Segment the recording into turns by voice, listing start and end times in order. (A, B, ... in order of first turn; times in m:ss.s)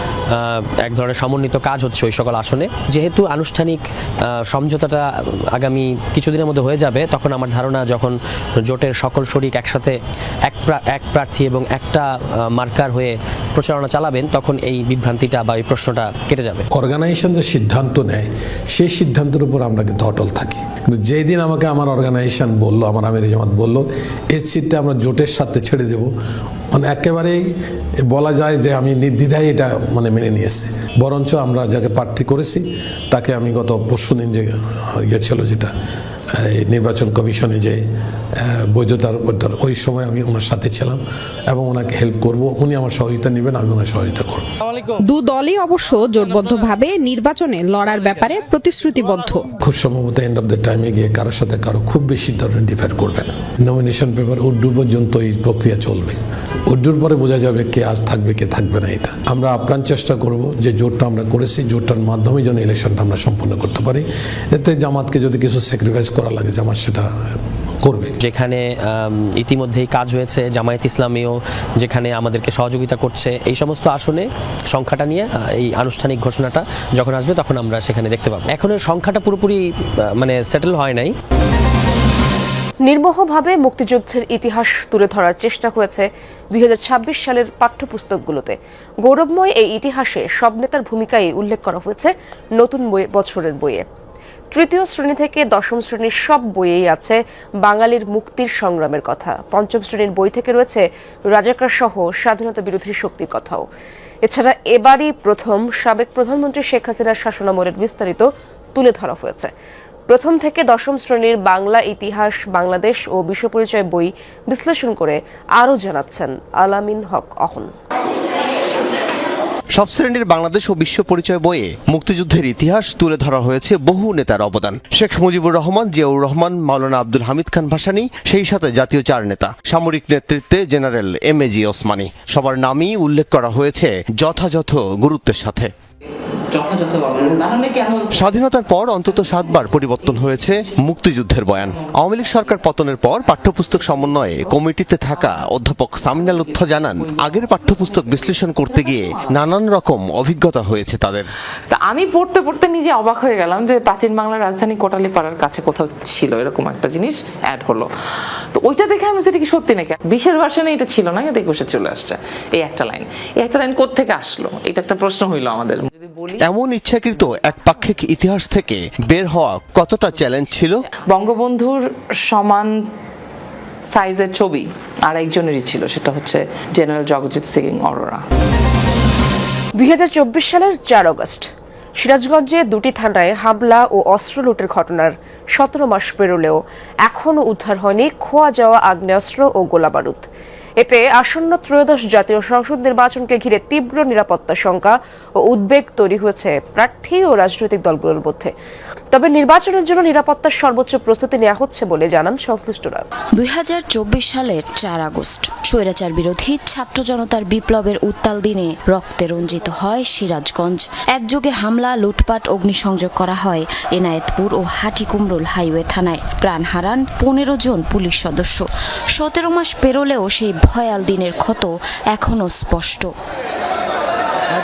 0:00.3-0:03.8 A
0:04.3-0:10.0 A
0:10.5-0:16.7 A
0:16.7-0:26.1 B
0:26.7-0:27.4 B
0:28.0-0:35.7 B
0:36.4-0:37.8 B
0:38.4-0:44.5 B
0:45.0-0:49.5 C
0:49.6-0:56.2 B
0:56.7-1:07.1 B
1:07.8-1:08.1 B
1:08.2-1:19.6 A
1:20.2-1:21.1 A
1:22.8-1:33.8 D
1:34.5-1:43.6 D
1:44.2-1:49.5 D
1:50.1-1:57.7 D
1:59.8-2:15.7 E
2:16.5-2:18.1 F
2:18.2-2:31.3 E
2:31.7-2:37.9 F
2:38.6-2:46.4 F
2:46.4-2:50.8 E
2:51.1-2:52.7 F
2:53.9-2:58.2 F
2:59.8-3:01.5 D
3:02.0-3:10.3 D
3:10.8-3:18.5 D
3:19.1-3:23.0 D
3:23.4-3:43.1 G